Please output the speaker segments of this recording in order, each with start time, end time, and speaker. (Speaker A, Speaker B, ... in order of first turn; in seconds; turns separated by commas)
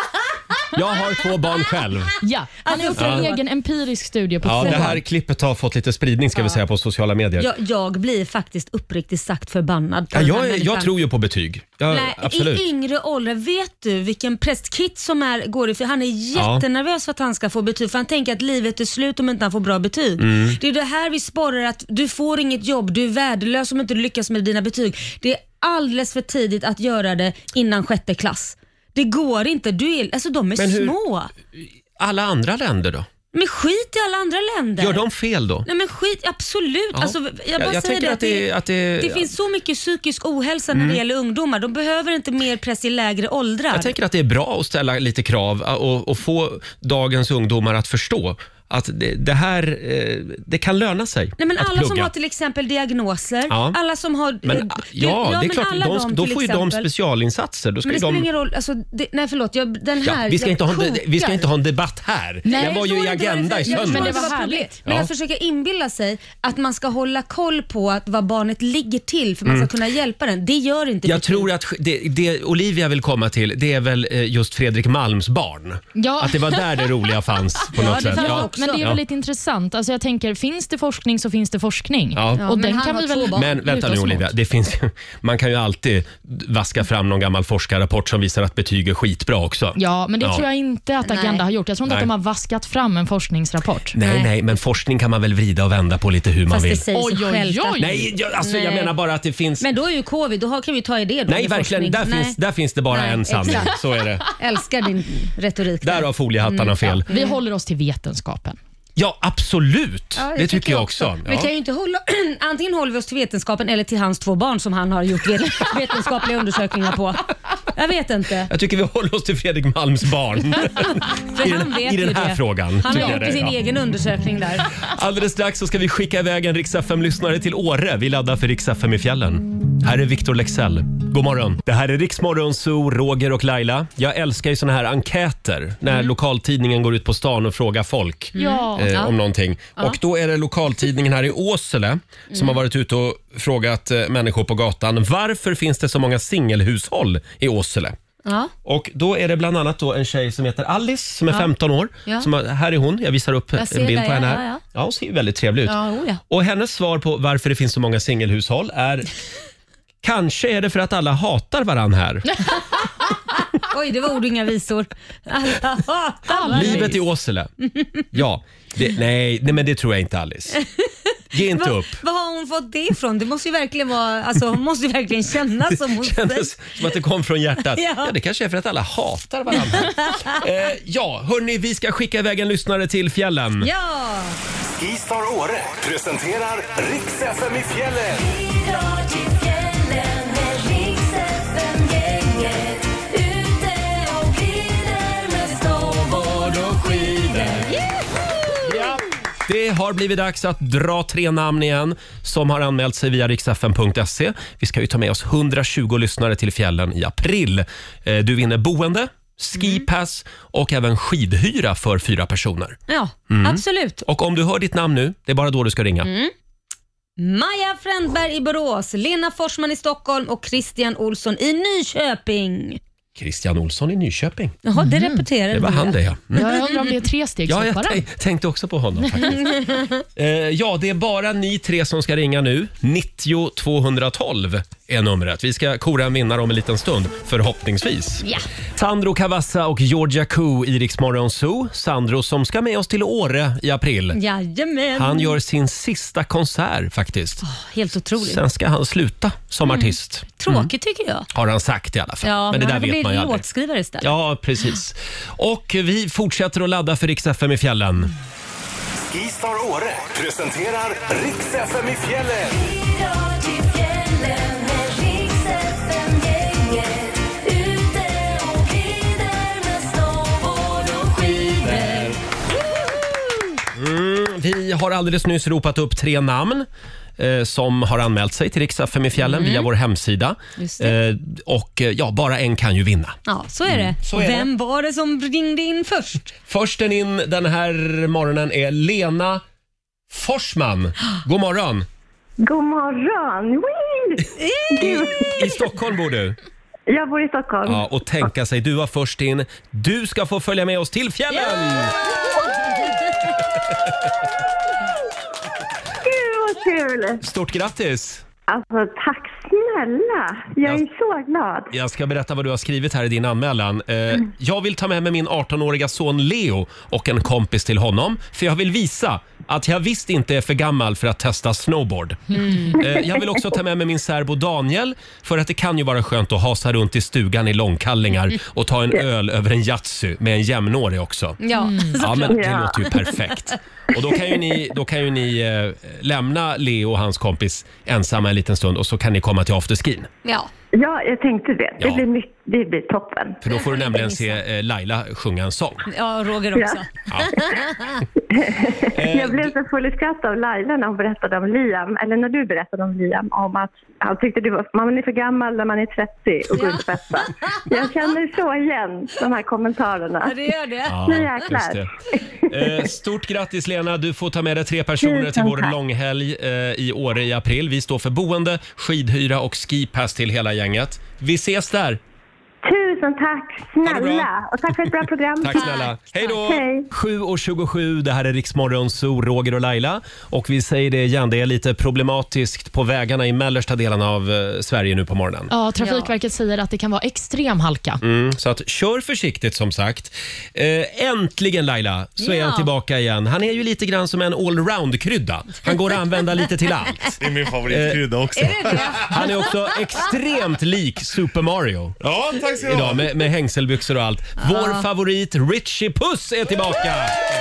Speaker A: 0.7-2.1, Speaker B: 2.2-5.0, Speaker C: 2.6-3.4, Speaker A: 3.0-3.2, Speaker A: 4.4-7.5, Speaker C: 4.6-4.9, Speaker C: 7.4-10.9, Speaker A: 10.1-12.6, Speaker C: 11.9-31.3, Speaker A: 16.3-16.6, Speaker A: 20.2-20.6, Speaker A: 30.6-30.9, Speaker A: 31.5-33.1, Speaker C: 33.3-35.0, Speaker A: 34.8-35.7, Speaker C: 35.6-38.5, Speaker A: 36.9-39.3, Speaker C: 39.0-43.9, Speaker A: 40.7-41.0, Speaker A: 43.7-52.1, Speaker C: 51.4-56.9, Speaker A: 53.5-53.8, Speaker A: 54.4-58.3, Speaker C: 57.8-61.5, Speaker A: 60.0-64.3, Speaker B: 62.5-64.7, Speaker C: 62.5-71.5, Speaker A: 71.0-79.0, Speaker B: 75.9-76.9, Speaker C: 77.7-78.8, Speaker B: 77.8-84.3, Speaker A: 82.1-82.5, Speaker C: 82.4-83.9, Speaker A: 83.3-90.4, Speaker B: 89.8-93.9, Speaker C: 91.0-91.4, Speaker A: 93.9-96.8, Speaker C: 94.0-94.3, Speaker C: 96.5-99.0, Speaker B: 96.9-98.0, Speaker A: 97.8-99.7, Speaker C: 99.6-102.4, Speaker A: 101.3-104.3, Speaker C: 102.9-107.4, Speaker A: 105.8-107.1, Speaker B: 107.1-108.6, Speaker A: 109.0-111.5, Speaker C: 110.2-118.5, Speaker A: 118.5-123.6, Speaker C: 120.8-124.7, Speaker A: 124.8-147.9, Speaker C: 138.3-139.1, Speaker B: 138.4-138.9, Speaker C: 142.3-142.6, Speaker C: 148.2-148.5, Speaker A: 148.6-159.1, Speaker C: 153.6-154.6, Speaker C: 155.7-156.2, Speaker A: 160.0-162.3, Speaker C: 163.6-167.0, Speaker B: 166.3-167.0, Speaker A: 166.5-167.5, Speaker C: 167.6-168.0, Speaker A: 168.1-170.6, Speaker C: 170.5-176.9, Speaker A: 171.3-172.0, Speaker A: 175.7-183.7, Speaker C: 177.7-178.1, Speaker C: 179.5-180.4, Speaker C: 183.6-184.4, Speaker D: 184.8-188.3, Speaker C: 188.3-198.3, Speaker A: 198.6-212.8, Speaker C: 209.6-209.8, Speaker C: 212.9-214.0, Speaker A: 213.3-216.1, Speaker C: 216.0-216.3, Speaker C: 217.2-222.8, Speaker A: 223.2-224.6, Speaker C: 224.6-226.0, Speaker B: 224.7-225.2, Speaker A: 225.5-226.5, Speaker B: 226.3-228.0, Speaker C: 226.6-226.9, Speaker A: 227.5-229.5, Speaker C: 229.2-230.0, Speaker A: 230.2-238.2, Speaker C: 238.2-238.5, Speaker A: 238.8-244.2, Speaker C: 244.1-245.3, Speaker A: 244.9-247.4, Speaker C: 247.4-248.4, Speaker A: 248.2-250.7, Speaker C: 249.6-251.3, Speaker A: 251.3-253.4, Speaker C: 252.2-254.1, Speaker A: 254.0-258.1, Speaker D: 259.1-262.7, Speaker C: 262.7-272.1, Speaker E: 271.6-272.1, Speaker A: 273.7-276.7, Speaker A: 277.2-284.5, Speaker C: 279.2-279.7, Speaker C: 280.6-280.9, Speaker C: 283.2-286.3, Speaker A: 286.5-289.4, Speaker A: 290.1-291.9, Speaker F: 292.4-295.6, Speaker C: 294.4-295.6, Speaker A: 294.8-296.4, Speaker F: 296.9-297.9, Speaker A: 297.6-301.9, Speaker C: 301.6-301.9, Speaker F: 306.0-307.2, Speaker A: 307.2-308.2, Speaker F: 308.5-311.7, Speaker A: 311.7-322.2, Speaker C: 322.3-322.8, Speaker B: 322.4-322.7, Speaker A: 322.7-331.4, Speaker C: 331.4-332.5, Speaker B: 331.6-332.0, Speaker A: 331.9-340.1, Speaker F: 332.3-332.8, Speaker C: 340.2-340.5, Speaker F: 340.7-343.4, Speaker A: 341.8-342.0, Speaker A: 343.4-345.9, Speaker C: 343.5-344.4, Speaker C: 345.9-347.9, Speaker F: 346.6-346.8, Speaker A: 347.1-347.5, Speaker F: 348.3-360.4, Speaker A: 348.9-349.5, Speaker C: 356.5-357.6, Speaker C: 360.2-361.1, Speaker A: 360.9-361.9, Speaker F: 361.0-362.8, Speaker A: 362.5-372.0, Speaker F: 365.0-365.7, Speaker F: 372.6-375.8, Speaker A: 373.8-374.3, Speaker A: 375.4-385.5, Speaker C: 375.5-376.4, Speaker F: 376.3-376.9, Speaker B: 385.5-388.0, Speaker C: 385.8-386.1, Speaker A: 388.0-397.2, Speaker C: 392.2-392.7, Speaker E: 397.2-399.2, Speaker A: 397.7-398.0, Speaker C: 398.3-399.8, Speaker A: 399.0-402.0, Speaker E: 402.0-403.1, Speaker A: 402.6-407.2, Speaker C: 404.4-404.9